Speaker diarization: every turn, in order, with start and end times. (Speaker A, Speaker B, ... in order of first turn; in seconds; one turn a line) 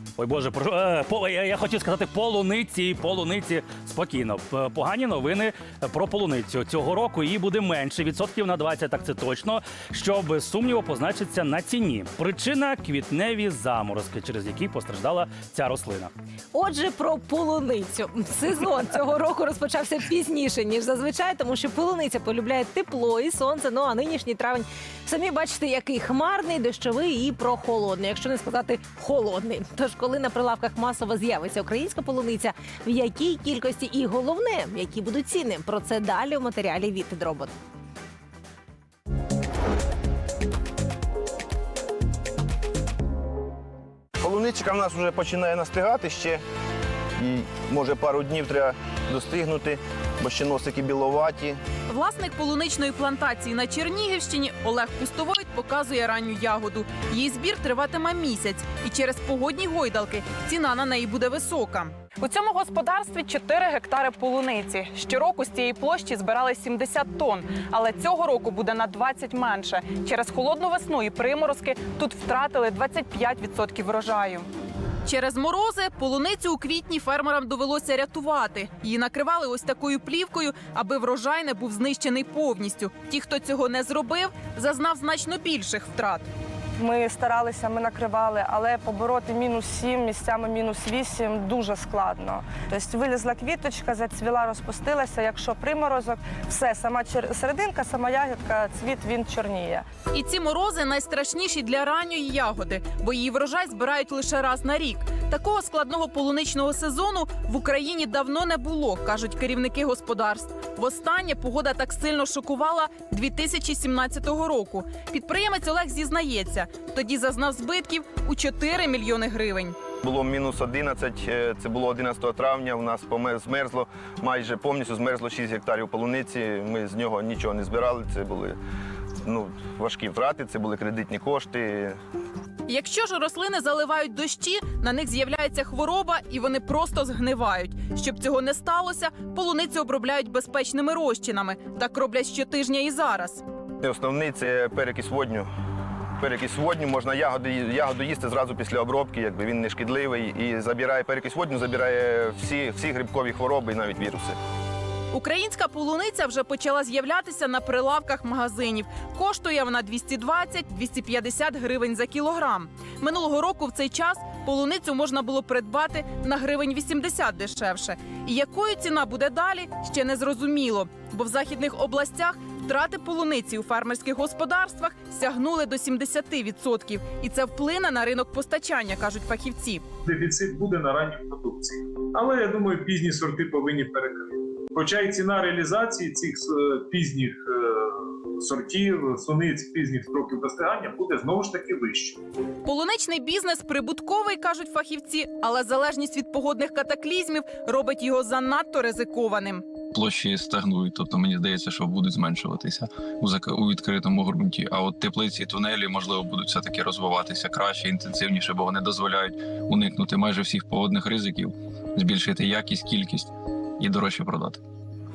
Speaker A: 0.2-16.1
Speaker B: 16.5-37.5
Speaker C: 44.2-46.4
Speaker C: 47.2-51.6
Speaker D: 51.9-74.5
Speaker D: 75.0-86.3
Speaker E: 86.8-99.9
Speaker D: 100.1-119.8
Speaker C: 120.0-128.6
Speaker C: 129.2-132.0
Speaker D: 132.7-143.4
Speaker C: 143.8-145.5
Speaker C: 146.2-154.4
Speaker D: 155.1-179.8
Speaker F: 180.1-192.2
Speaker D: 192.6-199.6
Speaker G: 199.9-214.6